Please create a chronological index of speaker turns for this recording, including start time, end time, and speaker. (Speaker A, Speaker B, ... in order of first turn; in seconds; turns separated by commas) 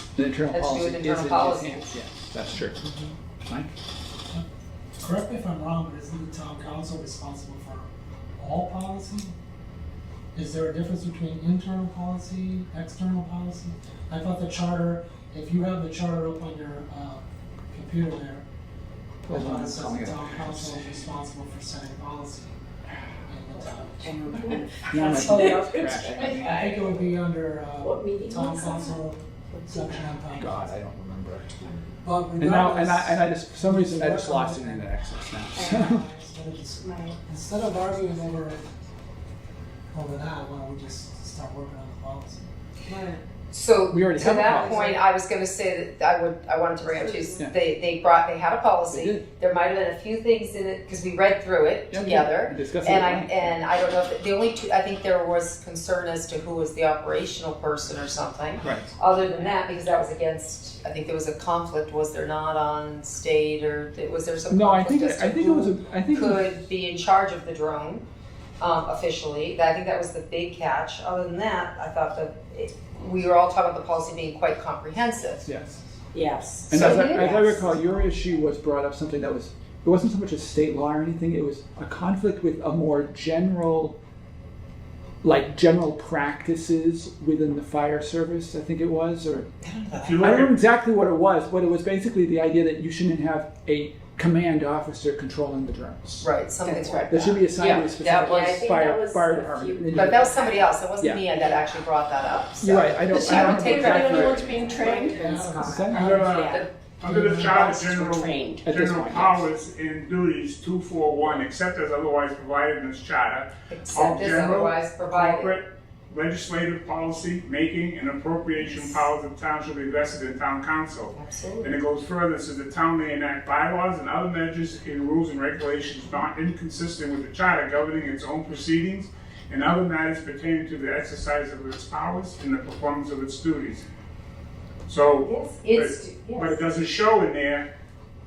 Speaker A: 0.2-2.9, Speaker B: 0.5-1.9, Speaker A: 3.5-3.7, Speaker C: 5.0-9.3, Speaker C: 10.3-18.4, Speaker A: 19.2-21.1, Speaker C: 19.3-22.6, Speaker C: 23.3-25.7, Speaker D: 24.0-26.9, Speaker A: 24.9-26.8, Speaker C: 26.4-30.7, Speaker D: 27.8-29.0, Speaker D: 29.5-30.1, Speaker A: 30.3-31.6, Speaker C: 32.0-35.0, Speaker A: 32.4-36.0, Speaker D: 35.5-36.1, Speaker C: 35.6-38.7, Speaker D: 36.8-37.2, Speaker C: 39.9-43.2, Speaker D: 42.9-43.1, Speaker B: 43.5-68.0, Speaker A: 43.9-44.9, Speaker D: 46.8-47.4, Speaker A: 48.9-49.2, Speaker A: 51.9-53.5, Speaker A: 58.6-58.9, Speaker A: 64.5-66.4, Speaker B: 68.6-75.4, Speaker A: 75.4-75.8, Speaker C: 75.4-75.9, Speaker D: 76.1-77.5, Speaker A: 76.7-84.0, Speaker B: 76.7-77.6, Speaker C: 77.3-78.4, Speaker A: 85.2-89.5, Speaker B: 89.6-90.4, Speaker E: 90.0-90.6, Speaker A: 90.2-96.3, Speaker B: 96.2-98.6, Speaker D: 96.6-100.8, Speaker A: 97.1-100.3, Speaker B: 99.9-104.5, Speaker A: 102.6-106.3, Speaker D: 103.1-106.7, Speaker C: 104.6-106.3, Speaker E: 105.9-133.9, Speaker C: 107.1-107.6, Speaker D: 107.4-108.7, Speaker A: 108.6-109.4, Speaker B: 113.7-115.6, Speaker B: 118.6-118.9, Speaker B: 121.1-121.8, Speaker E: 134.9-137.7, Speaker B: 135.2-136.6